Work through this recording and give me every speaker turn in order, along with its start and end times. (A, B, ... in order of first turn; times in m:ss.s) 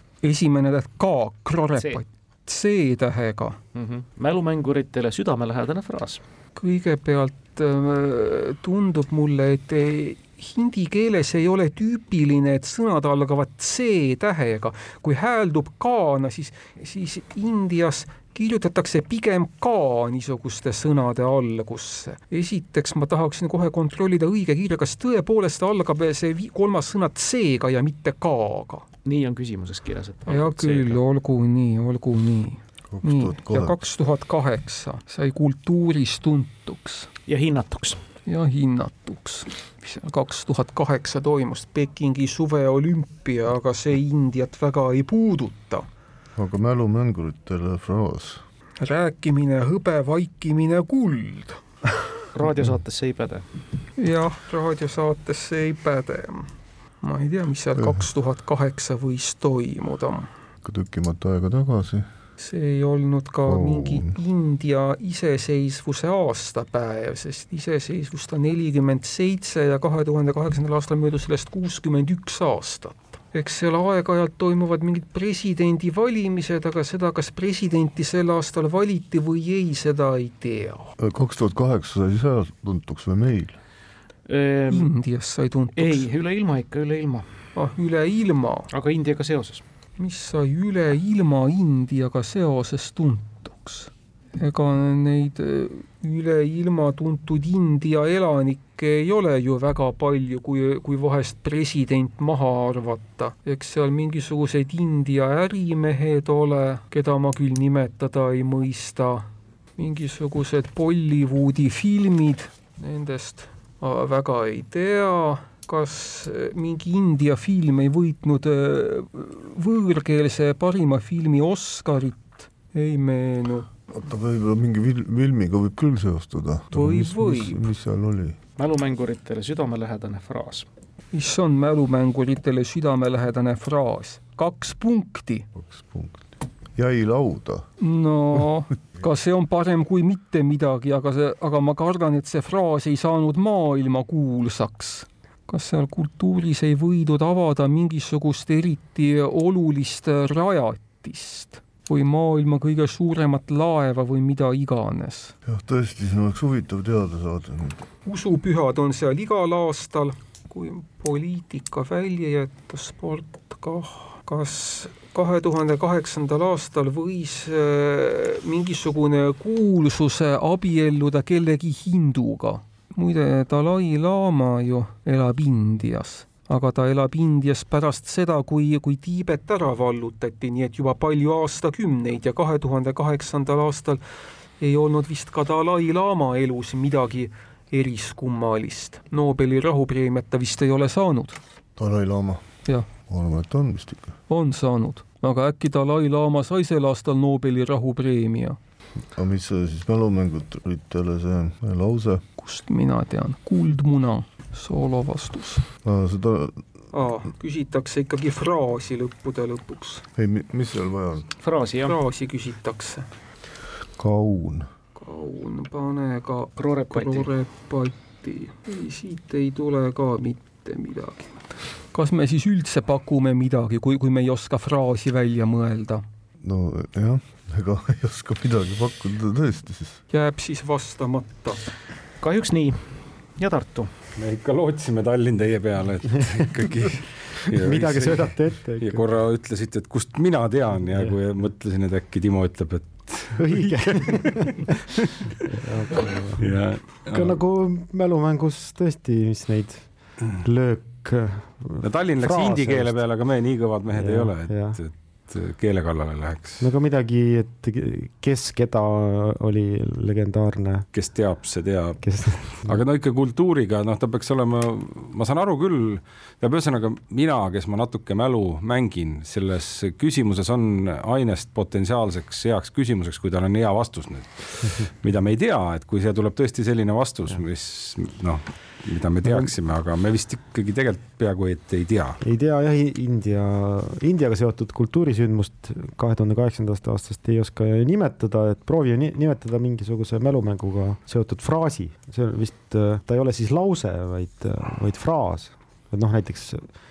0:00.2-0:03.6 A
0:01.8-0:02.0 B
0:03.8-0:06.2 B
0:06.6-0:28.8 A
0:29.0-0:31.0 B
0:30.3-0:37.1 A
0:32.9-0:33.8 C
0:37.3-0:38.0 B
0:38.3-0:45.8 A
0:46.4-0:48.4 C
0:48.8-0:51.6 A
0:52.3-0:53.4 B
0:54.0-0:56.5 A
0:57.0-1:00.3 A
1:00.6-1:02.1 C
1:02.4-1:21.0 A
1:03.5-1:04.2 C
1:21.0-1:23.6 C
1:24.3-1:24.9 B
1:24.7-1:26.1 A
1:25.8-1:27.3 B
1:27.6-1:28.7 A
1:28.7-1:29.6 B
1:30.0-1:49.3 A
1:49.8-2:03.7 A
2:03.9-2:08.4 C
2:06.7-2:07.6 A
2:08.6-2:10.7 B
2:11.1-2:15.5 A
2:15.6-2:17.7 C
2:17.8-2:35.3 A
2:35.5-2:37.8 C
2:38.0-3:04.0 A
3:04.6-3:11.4 A
3:11.8-3:12.4 C
3:13.1-3:14.2 C
3:14.3-3:18.6 A
3:19.2-3:22.2 C
3:22.4-3:25.7 A
3:25.8-3:26.7 C
3:26.9-3:30.0 A
3:30.2-3:31.3 C
3:31.4-3:32.0 B
3:31.8-3:33.1 A
3:34.0-3:34.7 C
3:35.0-3:46.0 A
3:36.6-3:37.3 B
3:46.4-3:50.0 C
3:50.1-3:51.6 A
3:52.2-3:53.9 B
3:54.2-4:05.6 D
3:57.6-3:59.0 E
4:03.4-4:04.9 E
4:05.5-4:13.0 E
4:06.4-4:07.4 D
4:11.8-4:16.7 D
4:13.9-4:14.8 E
4:16.6-4:20.9 E
4:20.9-4:42.2 D
4:22.0-4:22.8 E
4:42.2-4:56.7 E